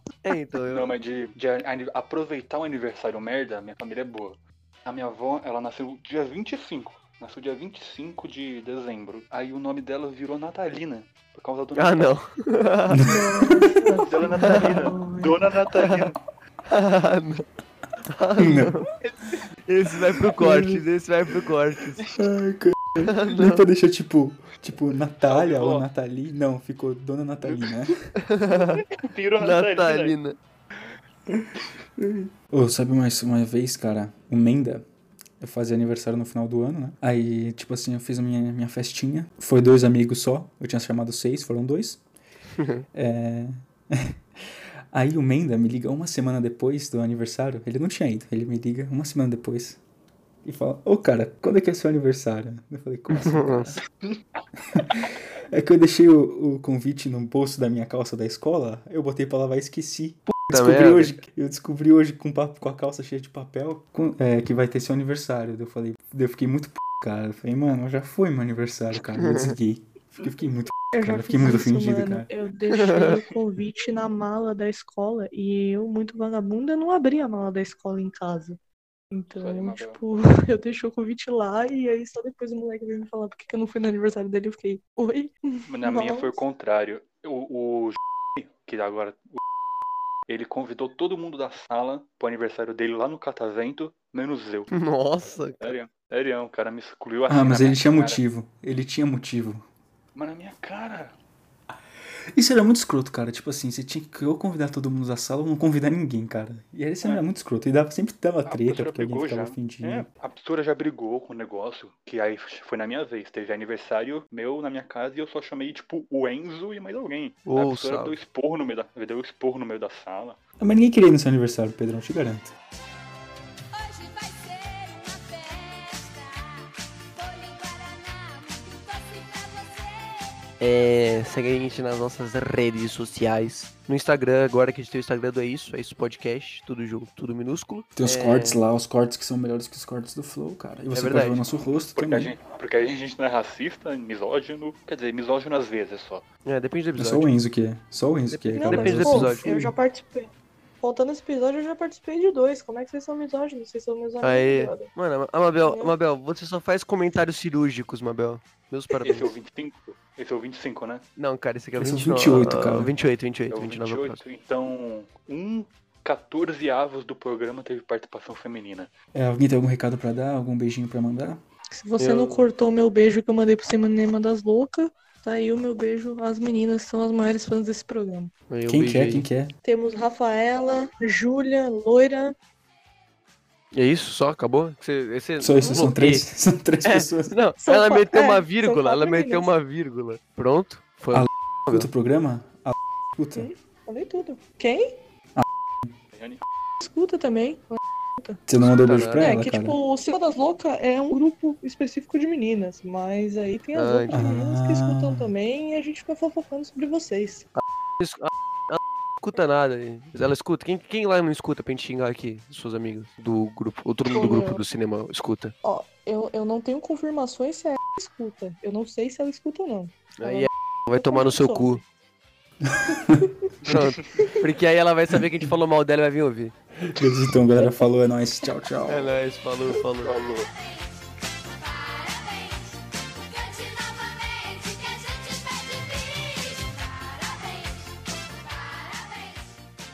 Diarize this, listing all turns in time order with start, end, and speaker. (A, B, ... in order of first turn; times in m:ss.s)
0:00.2-0:00.9 A
0:00.7-0:12.1 B
0:11.7-0:13.0 A
0:12.9-0:13.8 C
0:13.0-0:15.4 D
0:14.0-0:16.2 B
0:14.4-0:14.8 A
0:15.7-0:16.1 A
0:16.7-0:17.4 A
0:18.1-0:18.8 A
0:18.4-0:18.8 C
0:19.7-0:22.0 A
0:20.4-0:20.8 C
0:22.1-0:27.9 C
0:23.0-0:23.6 A
0:25.2-0:25.8 B
0:27.4-0:27.7 B
0:28.3-0:28.8 A
0:28.6-0:30.2 B
0:29.4-0:30.4 A
0:31.3-0:34.8 C
0:35.4-0:42.0 C
0:42.9-0:44.1 C
0:44.9-0:49.8 C
0:50.4-0:53.8 C
0:53.1-0:53.7 A
0:54.7-1:12.3 C
1:00.5-1:01.1 A
1:09.1-1:09.5 A
1:10.9-1:18.6 D
1:12.7-1:13.2 A
1:19.1-1:26.4 D
1:19.3-1:20.0 B
1:25.7-1:29.4 B
1:30.3-1:34.7 B
1:34.7-1:35.8 A
1:35.6-1:38.2 B
1:37.3-1:39.6 C
1:40.1-1:41.2 B
1:42.4-1:50.1 C
1:48.4-2:00.4 B
1:57.4-1:58.2 A
2:00.6-2:02.5 C
2:03.8-2:10.2 E
2:10.6-2:18.6 A
2:18.0-2:22.4 C
2:20.9-2:21.4 A
2:21.9-2:26.2 B
2:26.4-2:27.3 A
2:27.0-2:29.7 C
2:28.3-2:29.5 A
2:28.5-2:34.9 D
2:34.2-2:39.3 A
2:35.6-2:35.9 D
2:39.0-2:41.0 B
2:41.2-2:44.2 A
2:41.7-2:42.9 C
2:43.5-2:48.9 B
2:49.1-2:51.4 C
2:51.7-2:58.3 D
2:52.0-2:52.5 A
2:58.5-2:59.2 A
2:58.6-2:59.5 C
2:59.6-3:02.3 D
3:03.7-3:06.3 A
3:05.4-3:07.3 C
3:05.6-3:05.9 D
3:06.8-3:11.9 A
3:07.6-3:09.5 D
3:11.1-3:13.5 C
3:13.3-3:15.0 D
3:16.1-3:16.4 B
3:16.8-3:18.4 D
3:18.5-3:19.8 C
3:18.7-3:19.4 A
3:19.1-3:27.5 D
3:23.7-3:24.2 A
3:24.1-3:25.3 C
3:27.5-3:35.5 A
3:34.1-3:34.6 D
3:35.6-3:41.8 D
3:40.2-3:41.8 A
3:42.6-3:43.8 C
3:43.7-3:46.5 A
3:46.8-3:49.2 C
3:48.9-3:50.2 A
3:50.0-3:50.5 B
3:51.5-3:59.5 E